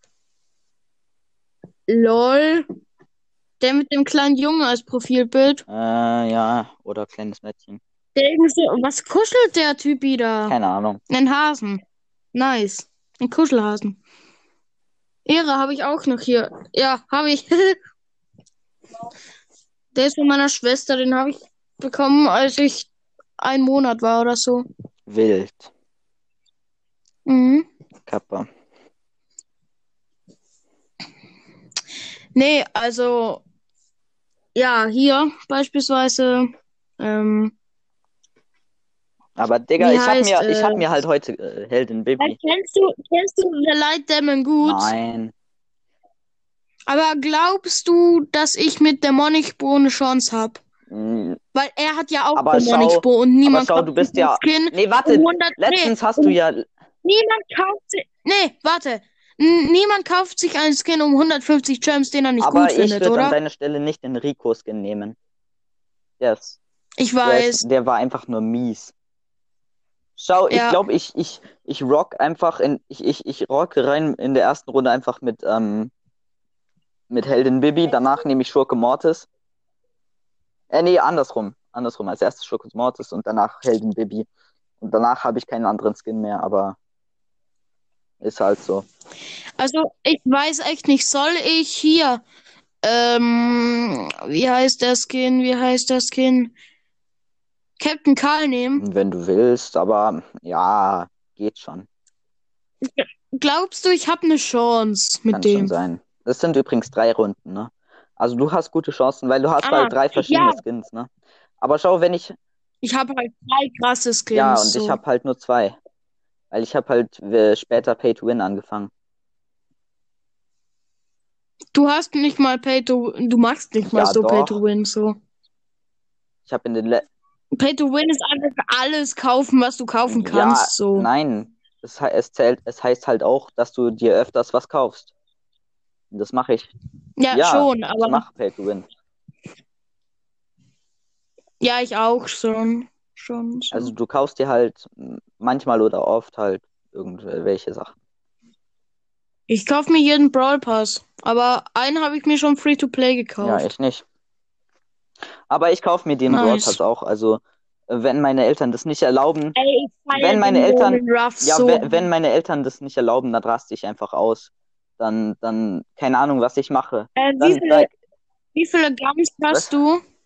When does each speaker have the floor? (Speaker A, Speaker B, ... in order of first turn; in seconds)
Speaker A: 1.9-2.7, 3.6-5.6, 8.2-10.6, 11.1-11.8, 12.3-14.0, 15.3-17.8, 19.9-24.6, 27.3-27.7, 32.4-33.4, 34.5-37.5, 39.8-40.9, 42.2-44.9, 46.9-50.6, 51.5-56.4, 57.0-63.4, 67.0-67.6, 70.5-70.8, 89.6-92.2, 92.8-96.5, 97.8-98.8, 102.8-105.7, 109.6-110.6, 112.8-115.0, 121.7-125.2, 127.6-131.1, 137.2-138.2, 141.6-143.9, 149.5-153.7, 156.3-156.8, 159.6-162.0, 167.2-167.9, 168.6-170.0
Speaker B: 5.7-7.8, 10.5-11.0, 25.1-25.7, 28.1-28.5, 39.4-42.4, 44.6-45.3, 50.9-51.4, 52.4-56.7, 62.4-65.2, 66.2-66.6, 67.2-68.9, 70.2-75.9, 77.1-79.3, 80.7-84.3, 84.8-86.8, 88.2-88.9, 98.8-101.9, 105.3-111.1, 111.6-112.4, 114.3-115.8, 116.5-118.9, 123.9-124.6, 126.5-127.1, 130.1-135.1, 136.1-136.7, 137.3-138.8, 143.7-147.9, 153.4-154.0, 155.5-159.6, 160.1-167.9